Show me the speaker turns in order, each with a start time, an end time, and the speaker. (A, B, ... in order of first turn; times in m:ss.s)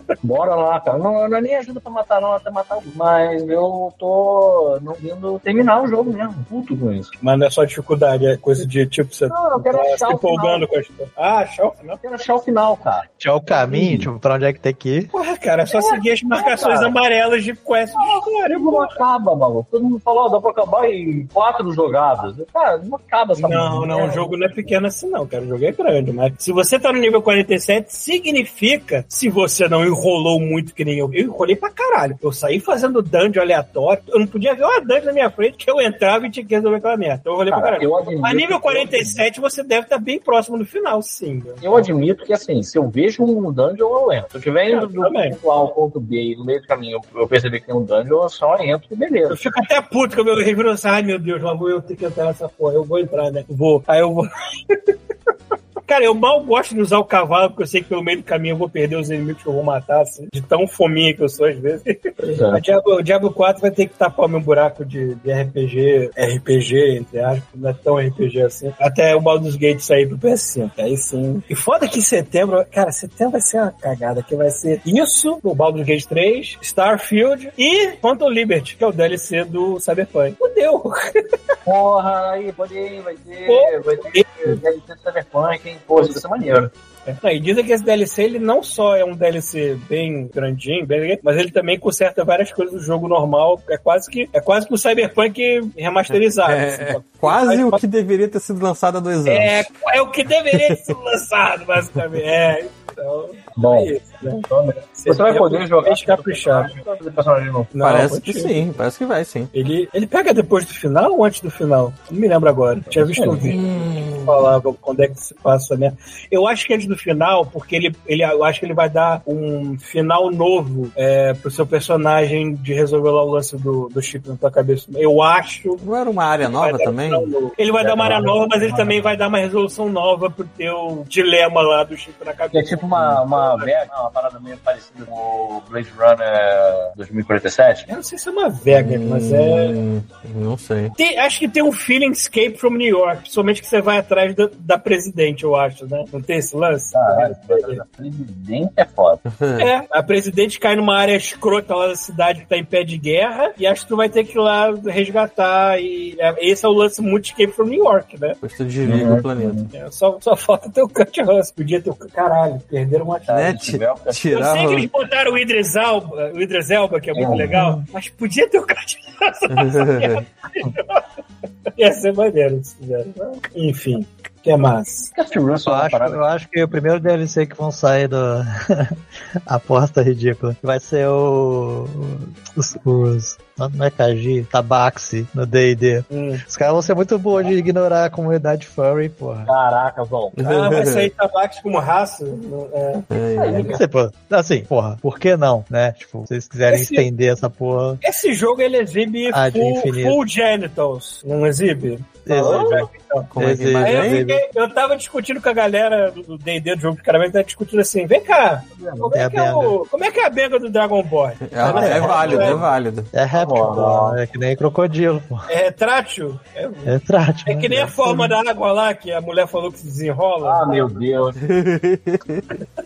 0:00.2-0:07.1 A
0:07.2-0:12.0 B
0:09.3-0:10.7 A
0:12.0-0:13.1 A
0:13.2-0:15.1 C
0:13.6-0:14.1 A
0:15.1-0:19.0 B
0:15.7-0:16.9 A
0:18.0-0:24.3 A
0:23.4-0:41.9 B
0:37.5-0:39.2 A
0:41.6-0:49.4 A
0:44.7-0:45.4 B
0:49.3-0:54.9 B
0:55.8-1:02.0 B
1:02.2-1:02.6 A
1:02.5-1:21.2 B
1:21.7-1:26.7 A
1:23.5-1:24.6 B
1:27.1-1:37.8 B
1:36.1-1:39.7 D
1:39.3-1:46.8 B
1:40.5-1:40.8 D
1:43.6-1:47.7 A
1:47.7-1:48.7 B
1:47.8-1:49.5 D
1:49.5-2:05.8 B
1:52.9-1:53.6 A
1:53.5-1:54.4 D
2:05.8-2:07.3 D
2:06.4-2:13.7 B
2:07.8-2:09.0 A
2:12.5-2:17.9 A
2:17.9-2:19.8 B
2:18.7-2:20.9 D
2:21.0-2:27.8 B
2:26.9-2:29.2 A
2:29.3-2:29.7 D
2:29.6-2:38.4 B
2:38.4-2:39.6 D
2:38.8-2:39.7 A
2:39.7-2:43.6 B
2:43.3-2:44.3 A
2:43.3-2:44.9 D
2:44.3-2:51.0 B
2:47.1-2:47.5 A
2:47.5-2:47.8 C
2:49.5-2:50.2 D
2:51.8-2:55.1 B
2:55.1-2:56.2 A
2:55.7-3:09.5 C
3:06.1-3:06.4 B
3:09.5-3:10.5 A
3:10.4-3:11.1 D
3:10.4-3:13.1 B
3:13.1-3:13.8 D
3:13.4-3:13.8 A
3:13.6-3:18.0 C
3:16.7-3:17.1 B
3:18.0-3:32.6 B
3:19.3-3:20.2 C
3:22.3-3:24.4 C
3:22.3-3:22.9 A
3:23.3-3:24.2 D
3:28.7-3:29.1 A
3:29.2-3:29.8 C
3:31.5-3:33.1 D
3:31.6-3:32.4 C
3:31.9-3:32.6 A
3:33.1-3:35.5 C
3:33.3-3:34.2 A
3:35.5-3:36.9 B
3:36.8-3:38.4 C
3:37.5-3:40.7 B
3:40.4-3:41.4 A
3:41.4-3:42.5 D